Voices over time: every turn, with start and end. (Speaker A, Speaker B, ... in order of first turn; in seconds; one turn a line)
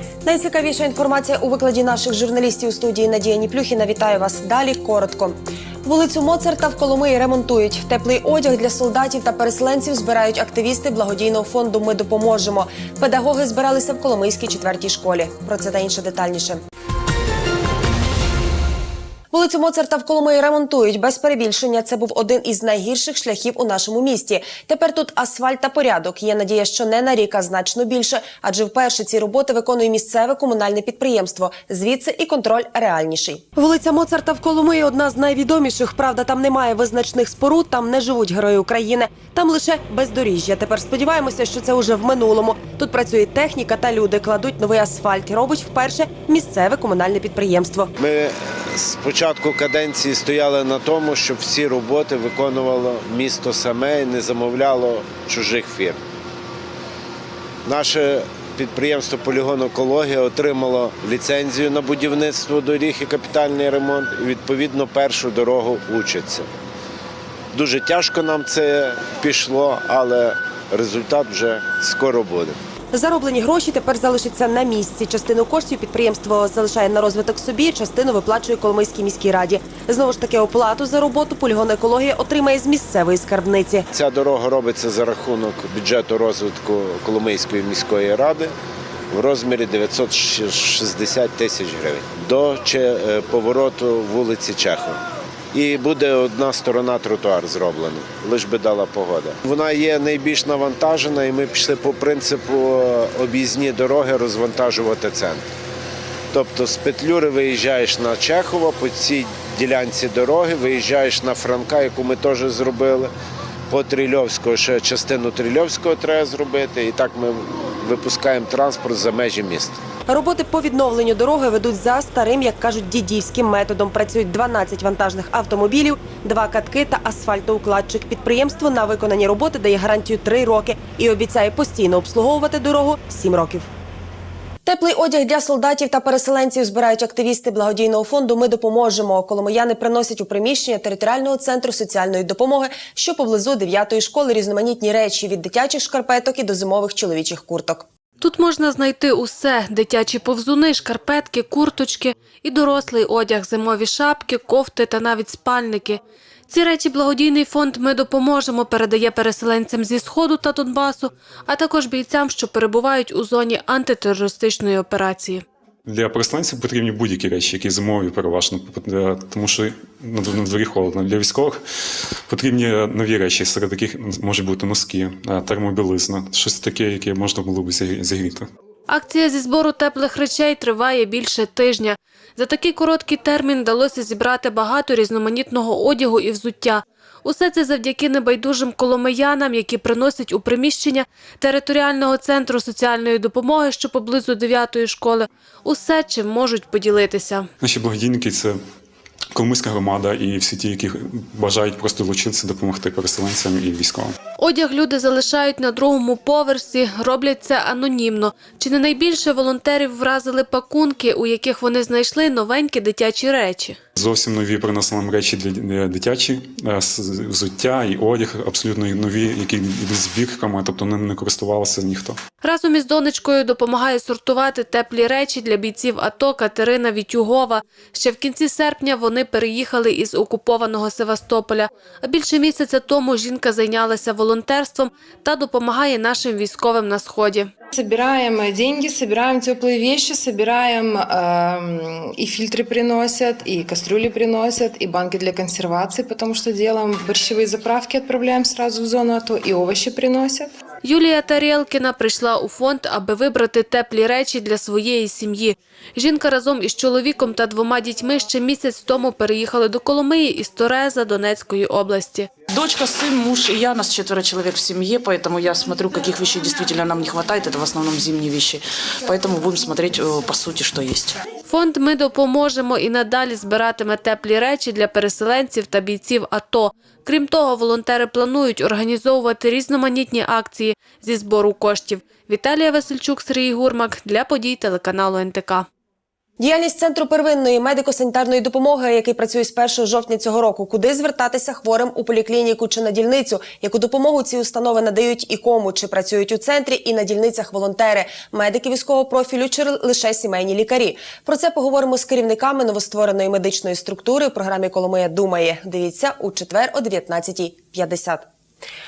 Speaker A: 0.2-16.6
Speaker A: 19.3-47.9
Speaker B: 48.0-56.0
Speaker B: 57.6-66.5
Speaker B: 67.5-72.6
Speaker A: 72.9-83.9
Speaker B: 83.9-88.5
Speaker B: 89.1-95.0
Speaker B: 95.5-105.5
Speaker B: 106.3-113.1
Speaker B: 113.7-119.8
Speaker A: 120.1-133.7
Speaker A: 134.7-147.9
Speaker C: 148.2-165.4
Speaker D: 165.9-171.6
Speaker D: 172.3-178.5
Speaker C: 178.9-197.5
Speaker D: 197.6-198.6
Speaker D: 199.3-204.2
Speaker C: 204.4-213.8
Speaker D: 214.0-222.2
Speaker C: 222.4-237.5
Speaker E: 237.7-250.5
Speaker C: 250.8-262.3
Speaker F: 262.5-271.2
Speaker C: 271.5-285.7
Speaker A: 286.4-308.2